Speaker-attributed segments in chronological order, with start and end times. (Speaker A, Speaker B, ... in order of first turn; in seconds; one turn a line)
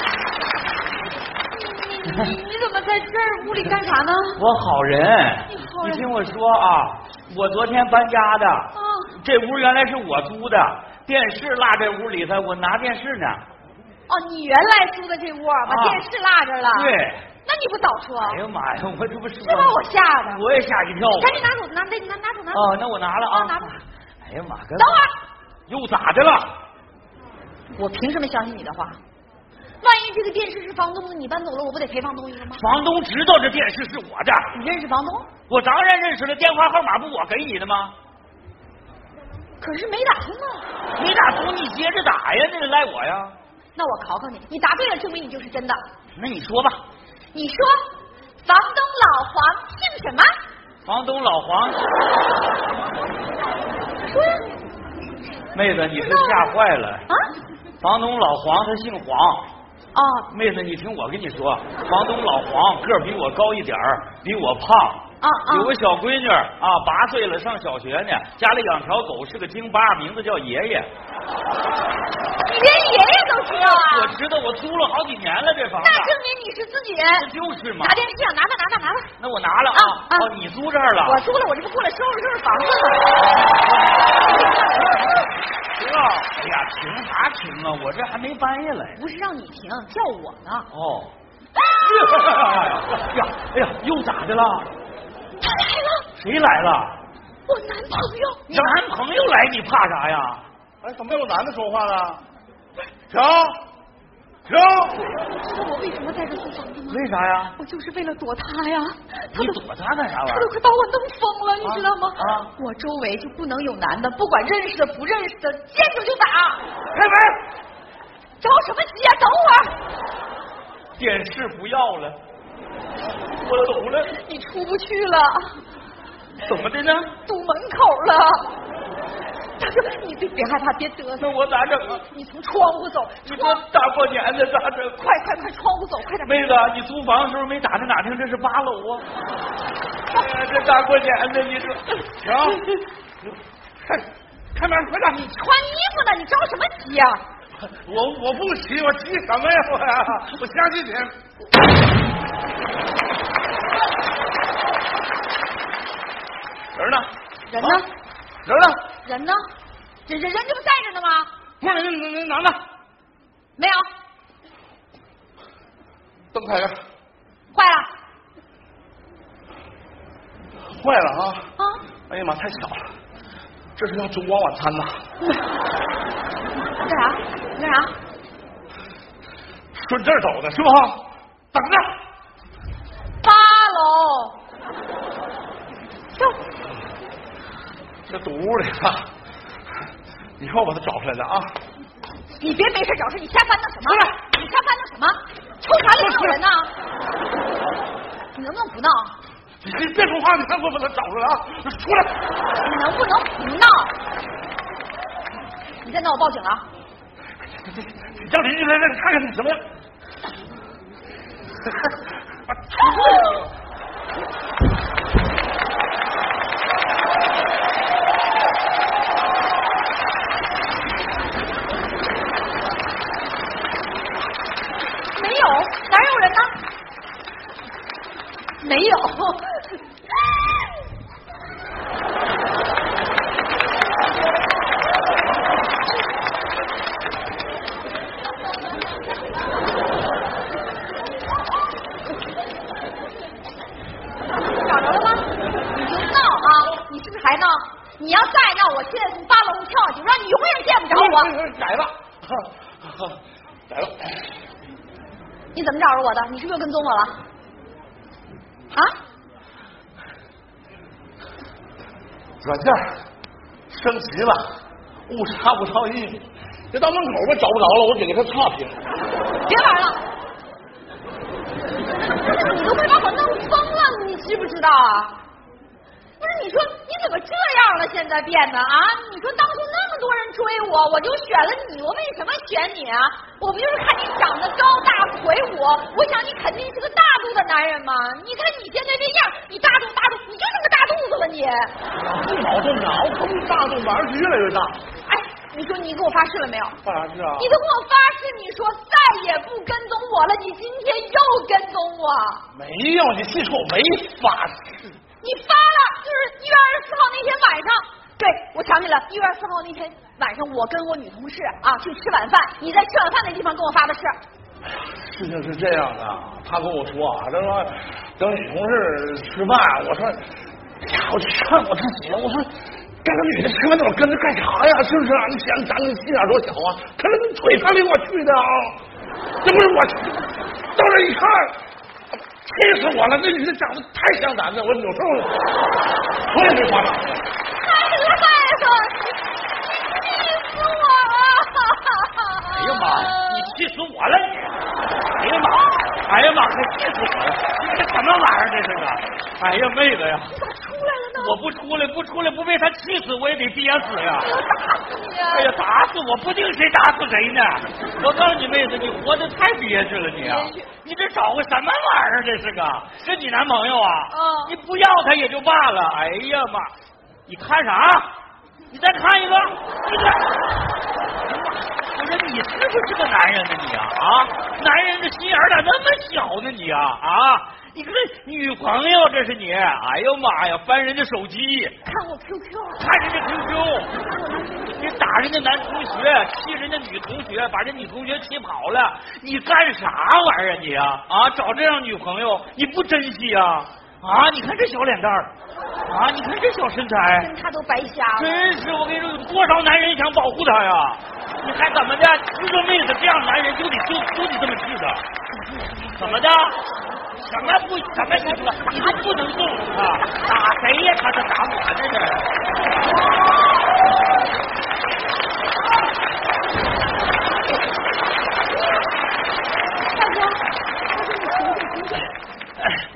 Speaker A: 1.5-4.4
Speaker B: 4.4-13.4
Speaker A: 5.5-6.1
Speaker A: 8.8-9.2
Speaker A: 14.1-18.4
Speaker B: 15.7-16.1
Speaker B: 16.7-17.3
Speaker B: 18.2-19.8
Speaker A: 19.4-20.4
Speaker B: 20.3-21.4
Speaker A: 21.2-23.8
Speaker B: 22.5-25.0
Speaker A: 24.8-25.1
Speaker B: 25.7-26.5
Speaker A: 27.8-29.0
Speaker A: 29.8-32.6
Speaker B: 32.5-34.5
Speaker A: 34.5-35.3
Speaker B: 35.5-38.0
Speaker A: 39.6-40.7
Speaker B: 41.0-43.4
Speaker A: 43.8-45.8
Speaker B: 46.1-46.8
Speaker A: 47.3-47.8
Speaker A: 48.4-50.3
Speaker B: 50.9-51.8
Speaker A: 54.0-54.5
Speaker B: 55.5-57.1
Speaker A: 56.0-56.5
Speaker B: 57.8-59.5
Speaker A: 59.9-60.3
Speaker B: 60.3-70.9
Speaker A: 65.2-65.8
Speaker A: 72.5-74.2
Speaker B: 73.5-76.1
Speaker A: 75.8-77.3
Speaker B: 77.2-78.0
Speaker A: 77.8-79.1
Speaker B: 79.2-81.2
Speaker A: 79.7-80.3
Speaker A: 81.0-83.5
Speaker B: 83.3-84.0
Speaker A: 84.2-85.3
Speaker B: 85.8-89.0
Speaker A: 89.0-90.7
Speaker B: 90.7-91.1
Speaker B: 91.8-94.7
Speaker A: 95.4-96.1
Speaker B: 96.2-97.0
Speaker A: 97.5-98.8
Speaker B: 98.5-100.4
Speaker C: 100.8-102.2
Speaker C: 103.1-103.6
Speaker C: 104.5-104.9
Speaker A: 105.0-107.0
Speaker B: 106.9-107.6
Speaker A: 107.6-109.6
Speaker B: 109.3-110.5
Speaker A: 110.2-116.6
Speaker B: 111.6-112.5
Speaker B: 116.9-117.4
Speaker A: 118.4-119.8
Speaker B: 121.0-122.2
Speaker B: 123.3-124.2
Speaker A: 124.1-125.6
Speaker B: 126.4-127.1
Speaker A: 127.2-128.6
Speaker A: 129.6-133.6
Speaker B: 131.2-132.0
Speaker B: 133.2-135.0
Speaker A: 135.0-136.5
Speaker B: 136.2-139.1
Speaker B: 140.1-142.6
Speaker C: 143.8-145.2
Speaker A: 145.0-147.2
Speaker C: 147.7-151.2
Speaker B: 156.8-157.1
Speaker A: 157.5-157.9
Speaker B: 158.5-158.8
Speaker A: 159.0-159.4
Speaker A: 160.1-161.3
Speaker C: 161.6-162.6
Speaker A: 163.6-163.9
Speaker C: 166.3-166.8
Speaker A: 167.5-167.9
Speaker C: 170.8-171.5
Speaker C: 172.1-172.9
Speaker C: 173.8-175.0
Speaker A: 176.8-178.0
Speaker C: 179.7-181.0
Speaker C: 181.5-181.9
Speaker A: 183.2-184.4
Speaker C: 188.1-189.1
Speaker C: 190.4-191.5
Speaker A: 192.4-196.7
Speaker C: 196.0-196.4
Speaker A: 198.3-199.2
Speaker C: 199.6-202.2
Speaker A: 202.6-203.9
Speaker A: 205.8-206.7
Speaker C: 207.6-209.6
Speaker A: 212.8-213.5
Speaker A: 225.2-226.6
Speaker A: 228.6-229.7
Speaker A: 244.4-251.4
Speaker C: 250.9-251.9
Speaker C: 253.7-254.1
Speaker A: 255.6-257.2
Speaker C: 262.4-262.9
Speaker C: 263.7-264.5
Speaker C: 265.1-268.8
Speaker A: 269.5-270.0
Speaker A: 272.2-275.2
Speaker A: 276.2-291.8
Speaker C: 291.9-294.8
Speaker A: 295.1-296.8
Speaker C: 296.8-297.5
Speaker A: 297.4-302.4
Speaker C: 302.5-304.9
Speaker A: 305.2-314.2
Speaker C: 314.9-320.3
Speaker C: 320.8-322.5
Speaker C: 323.0-328.8
Speaker C: 329.4-330.2
Speaker C: 330.8-331.6
Speaker C: 332.4-335.3
Speaker C: 336.3-337.2
Speaker A: 337.6-343.5
Speaker B: 342.4-344.5
Speaker B: 345.2-350.3
Speaker A: 350.3-351.4
Speaker B: 351.2-354.3
Speaker A: 354.2-355.5
Speaker B: 355.3-366.7
Speaker A: 360.2-360.7
Speaker A: 364.1-364.6
Speaker B: 367.3-368.1
Speaker B: 368.7-370.4
Speaker B: 371.6-381.8
Speaker A: 381.8-382.9
Speaker B: 382.8-383.9
Speaker A: 383.9-384.8
Speaker B: 384.8-395.3
Speaker B: 395.9-397.3
Speaker A: 397.2-398.6
Speaker B: 398.1-405.0
Speaker A: 405.3-406.2
Speaker B: 406.0-406.6
Speaker B: 407.2-412.3
Speaker A: 407.3-409.3
Speaker A: 412.9-413.5
Speaker A: 419.9-422.1